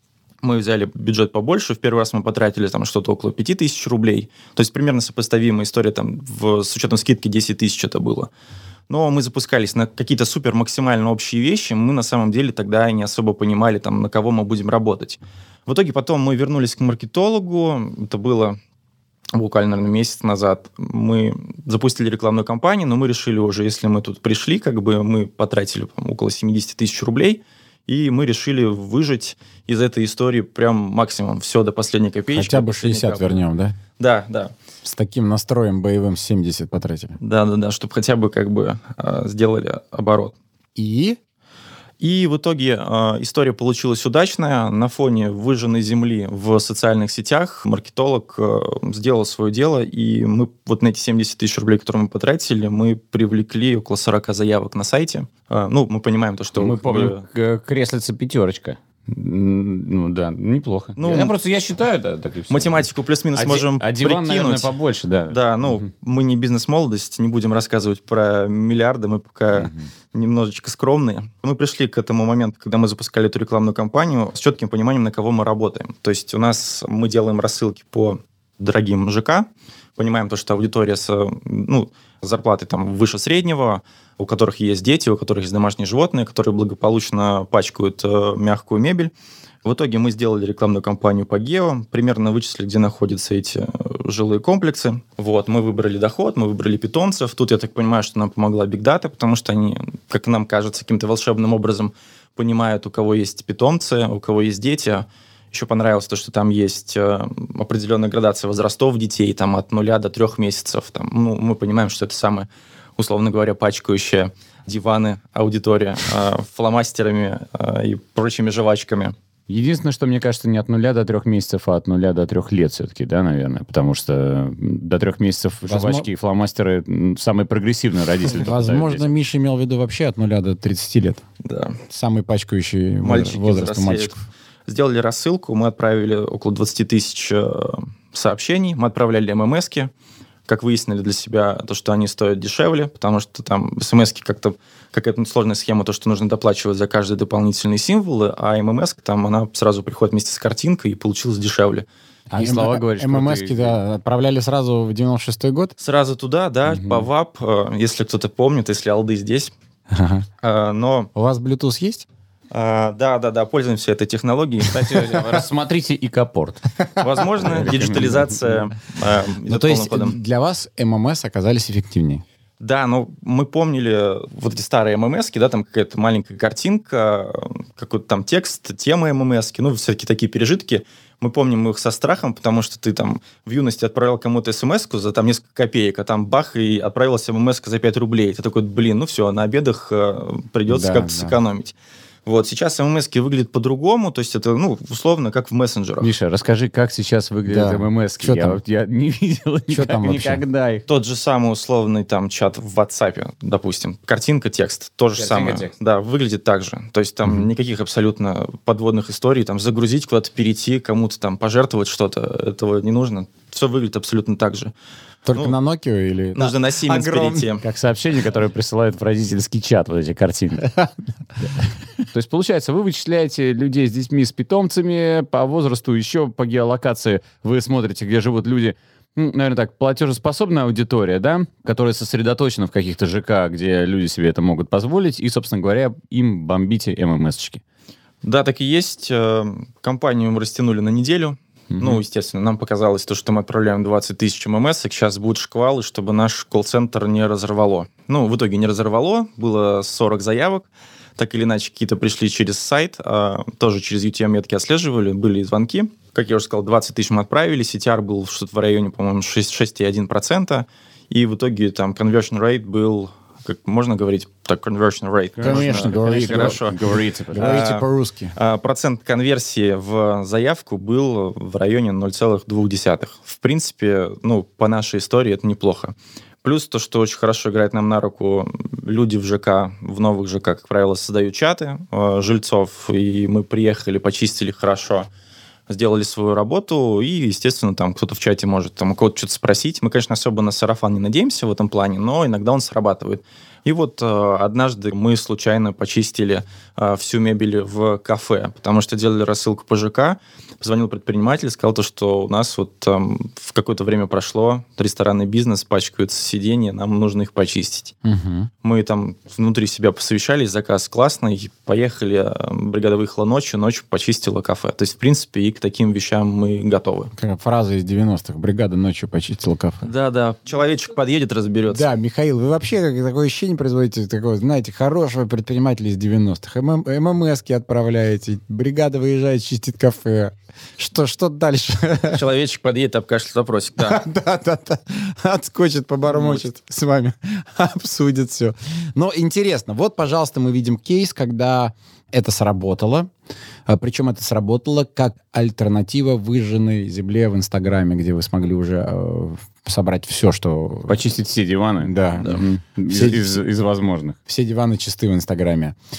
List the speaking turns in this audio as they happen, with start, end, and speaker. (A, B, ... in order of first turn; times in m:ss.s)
0:00.4-0:08.3 A
0:08.9-0:18.6 A
0:19.3-0:33.4 A
0:32.3-0:33.8 B
0:34.0-0:34.6 A
0:34.8-0:37.2 B
0:37.2-0:40.3 A
0:40.8-0:41.2 B
0:42.0-0:57.2 A
0:56.6-1:05.9 C
1:01.0-1:01.3 A
1:02.5-1:04.7 A
1:05.3-1:29.1 A
1:29.6-1:59.1 A
1:59.5-2:09.1 C
2:05.7-2:06.1 B
2:08.4-2:11.2 B
2:11.4-2:11.8 A
2:11.9-2:14.2 B
2:13.0-2:14.1 A
2:14.7-2:19.9 A
2:20.5-2:31.9 A
2:32.3-2:35.7 B
2:32.3-2:33.8 C
2:35.8-2:39.5 A
2:39.9-2:40.3 B
2:40.4-2:41.1 A
2:41.1-2:42.0 B
2:42.5-2:45.0 A
2:44.7-2:46.7 C
2:47.0-2:50.2 A
2:47.4-2:48.3 C
2:49.5-2:52.2 B
2:52.6-3:16.1 A
3:10.7-3:11.4 B
3:16.0-3:20.8 C
3:17.5-3:18.6 B
3:19.7-3:20.4 B
3:20.9-3:34.7 A
3:25.2-3:25.7 C
3:35.3-3:37.4 B
3:36.3-3:37.6 A
3:37.6-3:40.7 C
3:42.1-3:57.6 C
3:58.2-4:26.8 A
4:01.7-4:02.0 C
4:25.4-4:27.7 C
4:25.4-4:28.3 B
4:27.3-4:45.1 A
4:45.7-5:08.0 A
5:08.0-5:08.5 B
5:08.6-5:17.1 A
5:17.2-5:19.8 B
5:19.8-5:21.9 A
5:21.7-5:32.2 B
5:32.1-5:34.0 A
5:33.8-5:43.1 B
5:43.7-5:51.0 B
5:50.9-5:54.2 C
5:51.8-5:53.4 B
5:54.3-5:55.7 B